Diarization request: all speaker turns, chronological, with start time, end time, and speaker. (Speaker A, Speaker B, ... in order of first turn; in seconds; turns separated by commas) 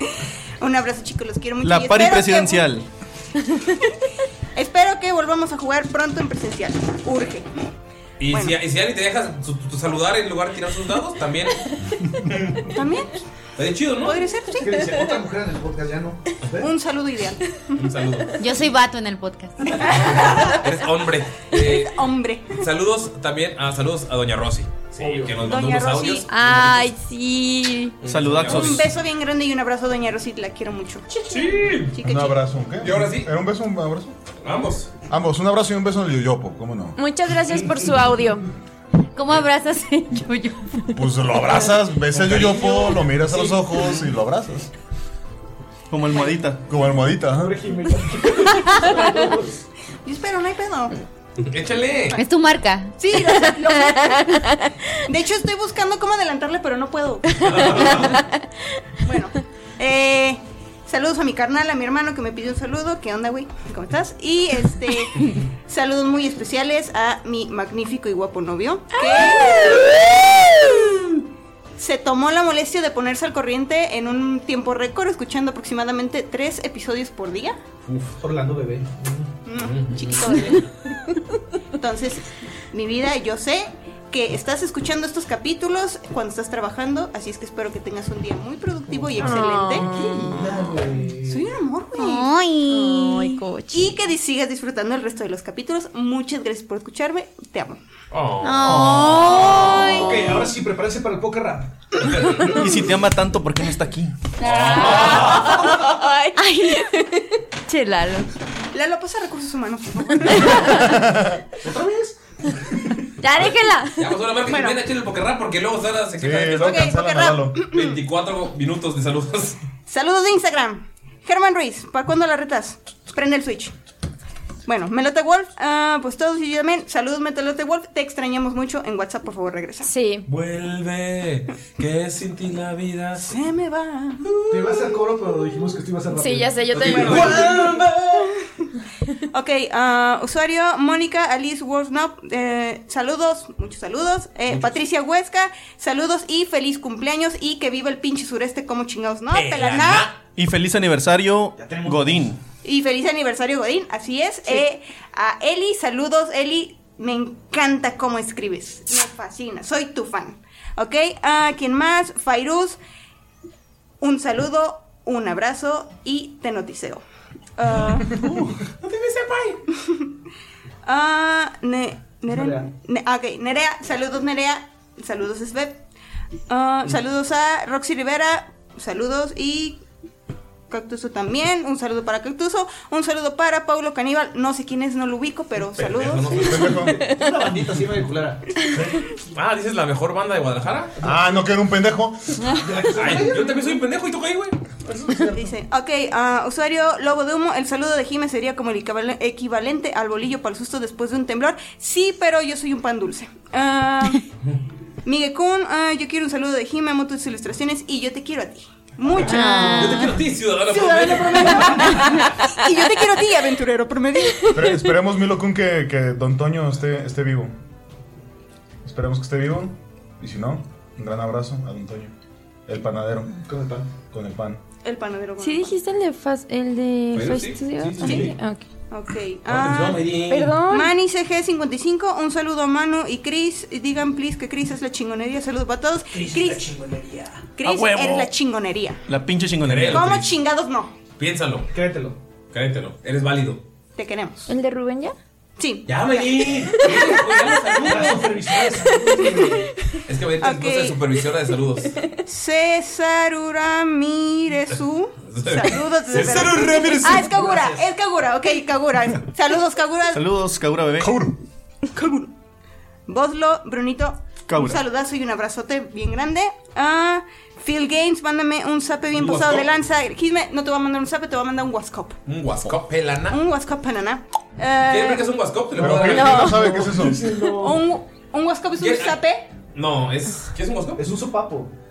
Speaker A: 0.6-2.7, Speaker B: 1.6-2.9, Speaker A: 4.5-7.5, Speaker C: 8.2-12.8, Speaker A: 8.3-8.6, Speaker A: 12.7-13.1, Speaker C: 13.6-14.3, Speaker A: 14.0-14.9, Speaker D: 14.6-16.7, Speaker A: 16.6-17.8, Speaker C: 17.8-18.4, Speaker E: 18.4-19.9, Speaker A: 19.8-20.6, Speaker C: 19.9-26.9, Speaker A: 21.5-22.6, Speaker D: 25.0-25.5, Speaker A: 25.4-26.3, Speaker F: 26.3-27.9, Speaker C: 28.0-28.9, Speaker B: 28.0-28.9, Speaker A: 28.4-32.4, Speaker C: 31.2-31.9, Speaker G: 32.0-34.1, Speaker C: 32.8-33.3, Speaker C: 34.4-34.9, Speaker G: 35.1-37.0, Speaker F: 37.0-38.5, Speaker E: 39.1-40.8, Speaker G: 40.9-44.7, Speaker C: 42.1-44.0, Speaker B: 45.9-46.6, Speaker G: 46.7-47.5, Speaker D: 47.4-49.6, Speaker A: 50.0-50.9, Speaker C: 51.4-52.2, Speaker E: 52.1-52.9, Speaker A: 53.0-54.5, Speaker A: 55.1-58.2, Speaker C: 57.4-58.2, Speaker A: 59.0-71.0, Speaker F: 69.0-69.8, Speaker A: 71.8-77.6, Speaker C: 77.8-78.2, Speaker D: 78.2-79.3, Speaker A: 79.5-80.6, Speaker C: 79.6-80.6, Speaker F: 80.3-80.6, Speaker A: 81.8-89.9, Speaker F: 89.2-89.9, Speaker D: 89.2-91.5, Speaker A: 91.2-92.3, Speaker E: 92.0-93.3, Speaker F: 92.7-94.0, Speaker A: 93.7-97.8, Speaker C: 98.1-99.8, Speaker E: 98.4-100.1, Speaker B: 98.6-99.1, Speaker F: 99.4-100.1, Speaker D: 99.4-102.5, Speaker C: 102.0-102.5, Speaker B: 102.4-104.2, Speaker C: 104.4-105.5, Speaker F: 104.5-107.3, Speaker D: 104.8-105.7, Speaker E: 107.7-108.2, Speaker A: 108.7-110.8, Speaker F: 110.3-110.6, Speaker G: 110.7-111.4, Speaker D: 111.6-112.2, Speaker F: 113.2-114.1, Speaker C: 114.0-117.0, Speaker A: 114.5-114.8, Speaker G: 116.2-117.6, Speaker A: 116.5-118.0, Speaker C: 117.6-119.6, Speaker A: 119.9-123.7, Speaker A: 124.7-129.9, Speaker F: 129.8-130.2, Speaker C: 130.3-133.3, Speaker A: 133.2-134.2, Speaker C: 134.2-135.0, Speaker D: 134.5-138.0, Speaker F: 136.1-137.4, Speaker C: 136.7-138.2, Speaker A: 136.8-137.7, Speaker A: 139.3-150.1, Speaker C: 144.5-144.8, Speaker C: 149.3-150.2, Speaker B: 150.3-152.4, Speaker D: 151.6-152.3, Speaker A: 152.6-162.8, Speaker A: 164.0-167.0, Speaker A: 167.6-168.3, Speaker D: 168.8-169.5, Speaker A: 170.8-175.8, Speaker D: 172.3-172.7, Speaker A: 176.5-179.8, Speaker A: 180.7-186.7, Speaker C: 185.8-186.9, Speaker D: 186.4-188.9, Speaker G: 186.5-187.0, Speaker C: 189.3-190.9, Speaker D: 191.0-191.3, Speaker G: 191.0-192.4, Speaker D: 192.5-193.8, Speaker C: 192.9-194.6, Speaker A: 195.3-204.2, Speaker A: 205.0-210.1, Speaker C: 209.1-212.0, Speaker E: 209.3-210.0, Speaker F: 209.3-210.0, Speaker A: 210.7-214.8, Speaker G: 214.5-217.5, Speaker G: 218.8-222.1, Speaker G: 222.7-223.3, Speaker D: 223.4-223.9, Speaker G: 224.1-224.6, Speaker A: 224.8-225.8, Speaker F: 225.4-228.7, Speaker C: 227.1-228.3, Speaker A: 228.0-228.3, Speaker A: 228.9-230.1, Speaker C: 229.5-230.6, Speaker F: 230.3-230.9, Speaker A: 230.7-236.7, Speaker D: 236.1-237.5, Speaker A: 237.6-239.0, Speaker B: 237.6-238.3, Speaker B: 239.1-240.2, Speaker C: 239.6-240.3, Speaker A: 239.9-240.9, Speaker C: 241.2-241.7, Speaker D: 241.7-242.2, Speaker C: 242.5-243.6, Speaker A: 243.9-244.5, Speaker F: 244.5-245.1, Speaker A: 245.6-247.1, Speaker C: 245.9-248.3, Speaker D: 247.8-249.7, Speaker F: 248.5-249.4, Speaker C: 250.1-252.0, Speaker A: 250.4-251.0, Speaker A: 252.3-260.2, Speaker C: 255.3-257.2, Speaker D: 257.0-257.9, Speaker B: 260.1-261.2, Speaker G: 261.0-261.4, Speaker A: 261.9-262.3, Speaker A: 263.1-272.2, Speaker B: 264.5-264.8, Speaker C: 269.1-269.7, Speaker C: 272.3-273.4, Speaker A: 273.3-275.3, Speaker C: 274.9-276.5, Speaker D: 275.8-277.8, Speaker G: 275.8-277.2, Speaker F: 276.1-276.7, Speaker A: 277.5-279.5, Speaker C: 278.8-279.2, Speaker C: 279.7-281.0, Speaker D: 281.0-281.7